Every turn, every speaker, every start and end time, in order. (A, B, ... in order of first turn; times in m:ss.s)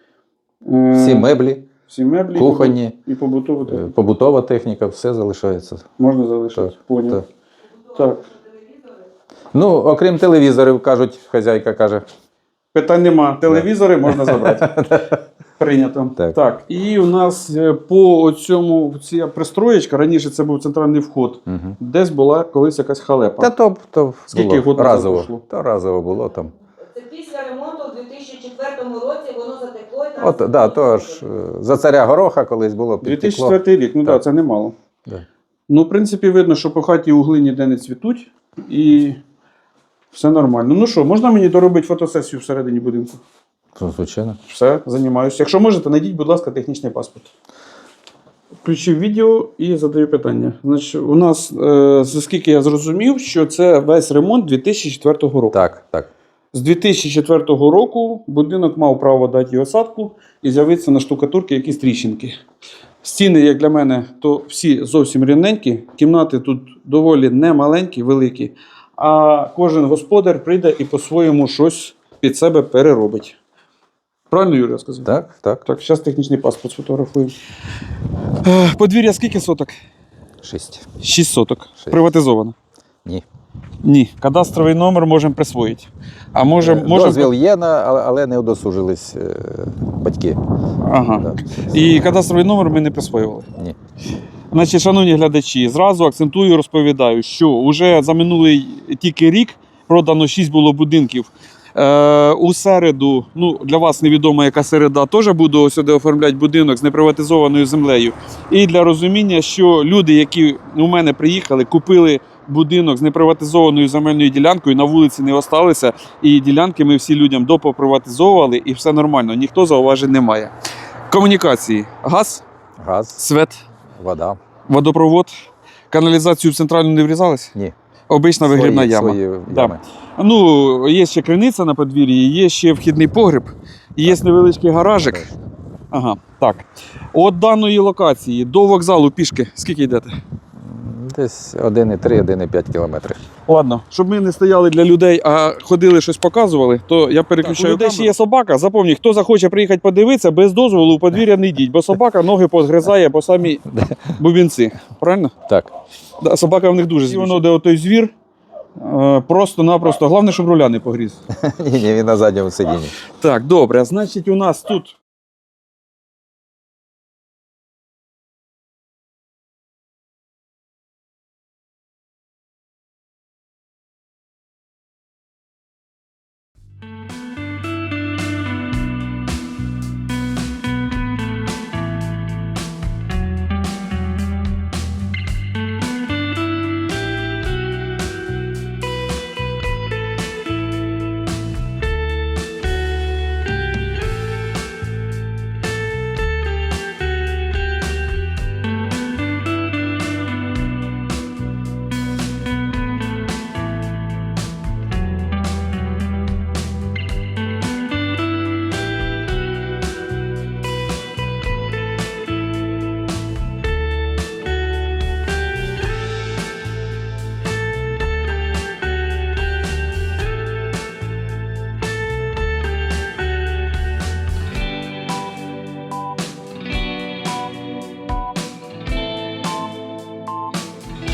0:00.6-0:01.3 A
0:00.9-0:01.7 B
0:01.8-0:03.9 A
0:02.4-0:03.0 B
0:03.7-0:05.9 B
0:06.0-0:07.2 A
0:06.6-0:07.2 B
0:07.9-0:08.3 A
0:09.5-0:12.1 B
0:12.7-0:15.0 A
0:13.5-0:15.1 B
0:15.6-0:23.5 A
0:21.5-0:21.8 B
0:23.4-0:26.5 B
0:24.3-0:25.4 A
0:26.9-0:31.1 C
0:30.2-0:34.2 B
0:33.0-0:34.8 A
0:35.7-0:39.2 A
0:40.1-0:43.2 A
0:43.8-0:44.4 B
0:44.5-0:47.3 A
0:48.6-0:55.6 A
0:55.5-0:56.1 B
0:56.5-1:02.4 A
1:03.0-1:13.4 A
1:14.3-1:15.1 A
1:15.0-1:15.6 B
1:15.6-1:17.3 A
1:18.4-1:19.8 A
1:20.4-1:20.9 B
1:21.0-1:22.6 A
1:23.8-1:27.3 A
1:26.6-1:30.4 B
1:30.8-1:33.5 A
1:31.2-1:31.8 B
1:34.5-2:00.5 A
2:01.1-2:02.4 A
2:02.8-2:03.2 B
2:03.2-2:03.6 A
2:04.0-2:04.4 B
2:04.7-2:05.3 A
2:05.9-2:07.6 A
2:08.1-2:15.3 A
2:08.4-2:09.8 B
2:15.0-2:15.4 B
2:15.9-2:20.1 A
2:20.6-2:23.2 B
2:23.5-2:35.3 A
2:27.4-2:28.1 B
2:33.7-2:34.1 B
2:35.5-2:35.7 B
2:36.2-2:38.1 A
2:38.8-2:41.2 A
2:41.3-2:43.0 B
2:43.2-2:45.0 A